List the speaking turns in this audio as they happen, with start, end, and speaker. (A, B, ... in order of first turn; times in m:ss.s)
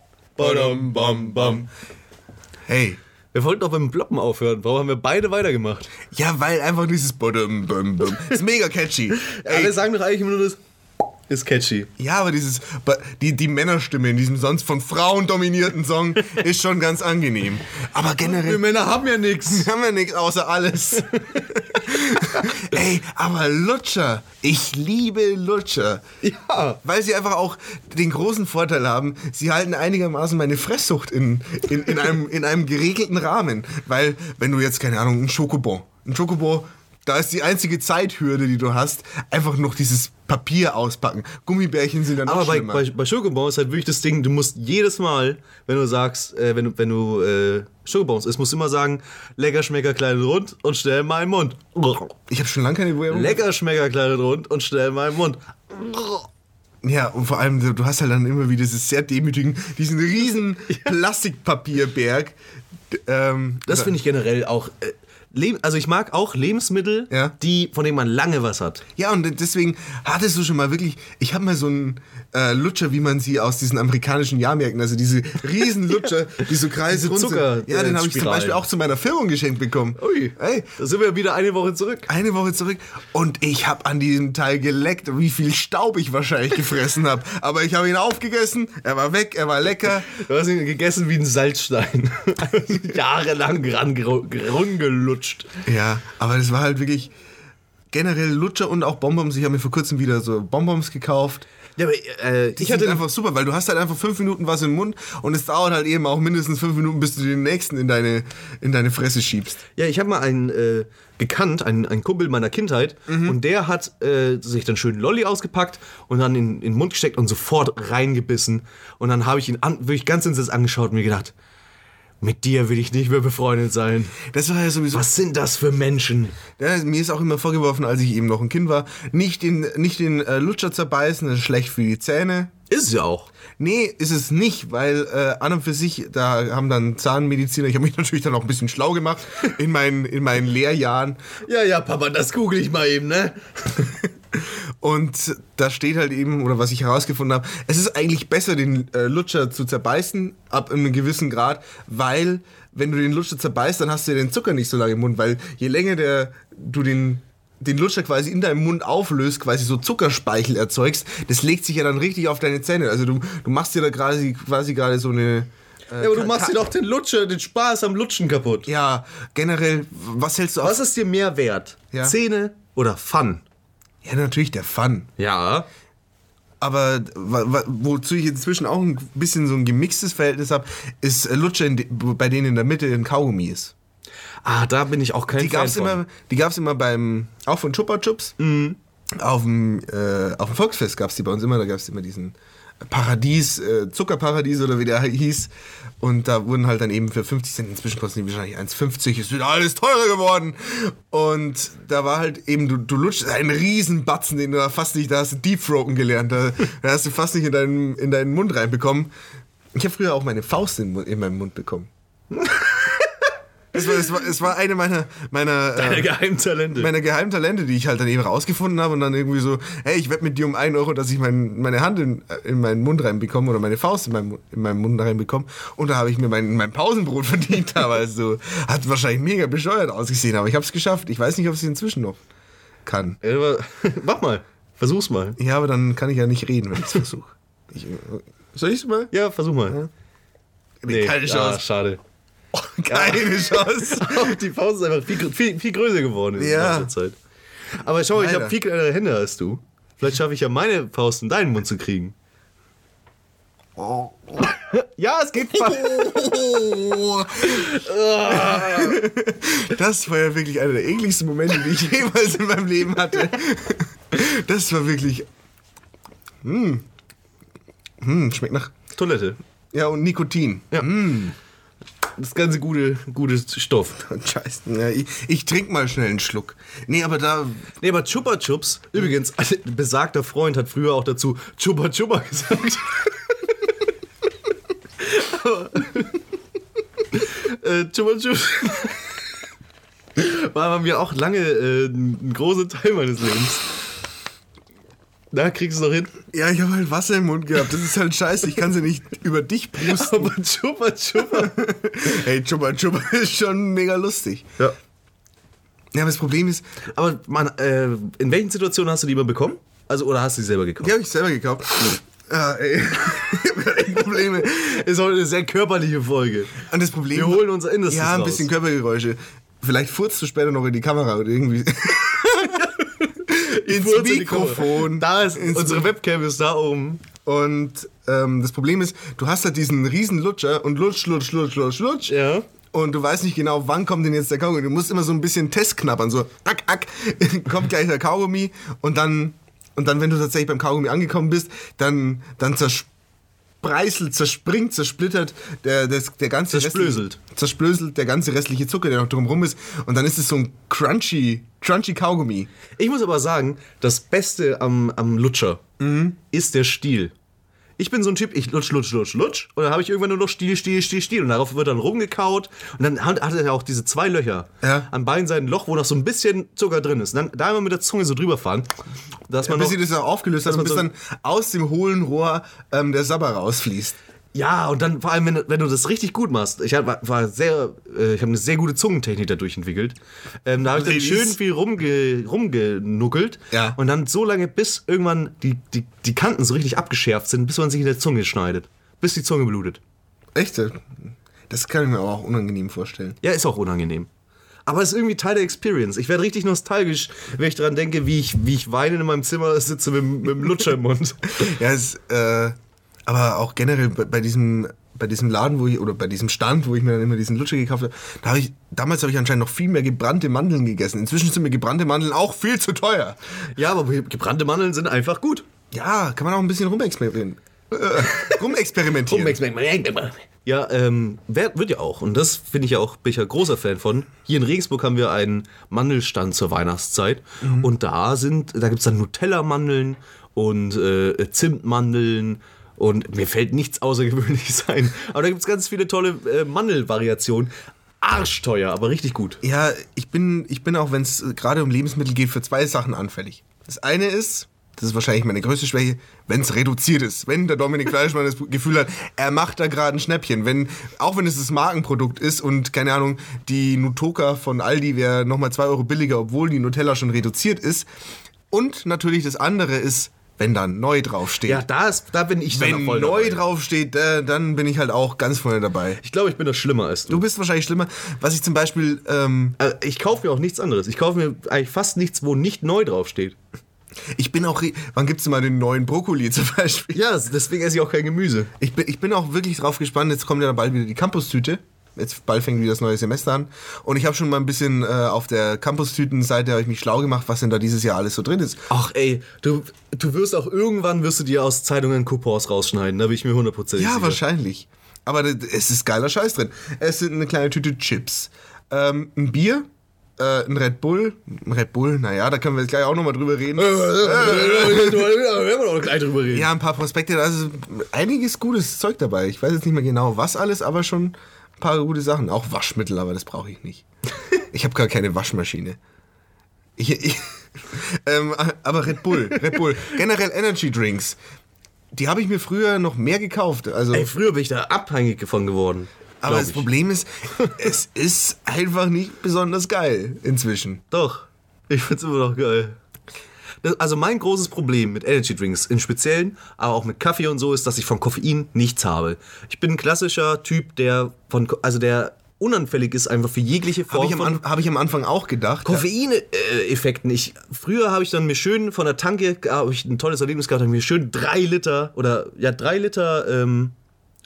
0:00.4-0:01.7 A
0:00.4-0:00.9 B
0:02.7-0:03.0 B
0:03.3-0:05.9 A
0:06.1-0:09.8 B
0:09.2-0:10.6 A
0:11.3-0:11.9 A
0:12.0-0:18.6 B
0:18.2-0:19.7 A
0:19.5-0:26.0 B
0:21.1-0:22.6 A
0:26.2-0:26.8 A
0:26.8-0:42.8 B
0:42.2-0:52.1 A
0:52.3-0:53.4 B
0:53.1-0:56.3 A
0:56.8-1:02.3 B
1:00.7-1:00.9 A
1:02.9-1:03.9 B
1:03.7-1:08.8 A
1:09.0-1:20.7 B
1:16.4-1:18.6 A
1:20.0-1:22.1 A
1:22.1-1:30.1 B
1:29.9-1:35.5 A
1:35.6-1:37.1 B
1:37.9-1:41.5 B
1:41.8-1:43.0 A
1:42.6-1:49.6 B
1:49.8-2:01.3 A
1:53.1-1:53.4 B
2:02.2-2:04.2 A
2:04.2-2:05.1 B
2:04.9-2:06.4 A
2:06.6-2:12.5 B
2:12.7-2:13.3 A
2:13.6-2:21.2 B
2:21.4-2:24.0 A
2:24.3-2:46.6 B
2:46.0-2:48.7 A
2:48.6-2:50.8 B
2:50.6-2:53.4 A
2:54.0-2:55.1 B
2:55.2-2:55.7 A
2:56.6-3:03.7 B
3:04.4-3:06.0 A
3:05.4-3:08.3 B
3:08.4-3:08.8 A
3:09.2-3:29.1 B
3:29.7-3:31.9 B
3:32.3-3:33.3 A
3:33.7-3:36.1 B
3:35.7-3:36.9 A
3:36.8-3:52.2 B
3:52.8-3:53.2 B
3:53.2-3:55.4 A
3:55.4-3:59.1 B
3:59.1-3:59.8 A
4:00.8-4:01.6 B
4:00.9-4:02.0 A
4:02.5-4:04.4 B
4:02.9-4:07.2 A
4:06.4-4:06.9 B
4:07.8-4:12.1 A
4:08.1-4:08.5 B
4:13.8-4:14.5 B
4:14.4-4:19.1 A
4:15.4-4:17.7 B
4:18.3-4:25.3 B
4:26.4-4:26.8 B
4:28.0-4:28.7 B
4:29.0-4:29.4 A
4:29.7-4:31.3 B
4:32.2-4:34.0 A
4:34.0-4:37.7 B
4:37.8-4:43.5 A
4:45.0-4:46.2 A
4:47.1-4:49.1 A
4:50.2-4:53.6 A
4:55.3-4:56.2 A
4:56.3-5:00.3 B
4:59.8-5:01.6 A
5:01.3-5:04.5 B
5:05.9-5:06.6 B
5:06.9-5:10.9 A
5:10.8-5:14.7 B
5:14.4-5:16.6 A
5:16.6-5:22.7 B
5:17.1-5:18.5 A
5:22.6-5:27.0 A
5:23.3-5:25.9 B
5:27.2-5:32.2 B
5:32.1-5:32.4 A
5:32.7-5:42.9 B
5:43.6-5:52.5 B
5:46.5-5:47.2 A
5:52.8-5:55.6 A
5:55.8-5:56.2 B
5:56.3-5:57.1 A
5:57.8-6:08.7 A
6:04.6-6:04.9 B
6:09.3-6:09.8 A
6:09.4-6:14.0 B
6:10.4-6:10.9 A
6:14.3-6:29.8 A
6:20.7-6:21.4 B
6:23.5-6:23.8 B
6:30.3-6:33.2 B
6:33.2-6:34.1 A
6:34.6-6:41.5 A
6:41.4-6:42.5 B
6:43.1-6:53.2 B
6:53.5-6:55.4 A
6:55.7-6:59.4 B
6:58.0-6:58.4 A
6:59.0-7:19.4 A
7:07.4-7:07.7 B
7:19.4-7:37.9 B
7:38.5-7:41.6 B
7:41.4-7:43.4 A
7:42.5-7:46.0 B
7:46.0-7:47.2 A
7:47.1-7:49.6 B
7:49.6-7:53.4 A
7:54.1-7:57.0 B
7:56.9-7:58.5 A
7:58.6-8:08.6 B
8:08.7-8:14.2 A
8:13.8-8:19.7 B
8:20.2-8:25.1 B
8:23.6-8:26.5 A
8:26.3-8:33.8 B
8:34.5-8:35.8 B
8:36.8-8:41.2 B
8:41.9-8:44.1 B
8:43.9-8:46.7 A
8:46.2-8:50.8 B
8:50.9-8:52.8 A
8:53.6-9:04.4 A
9:03.9-9:05.8 B
9:05.6-9:13.7 A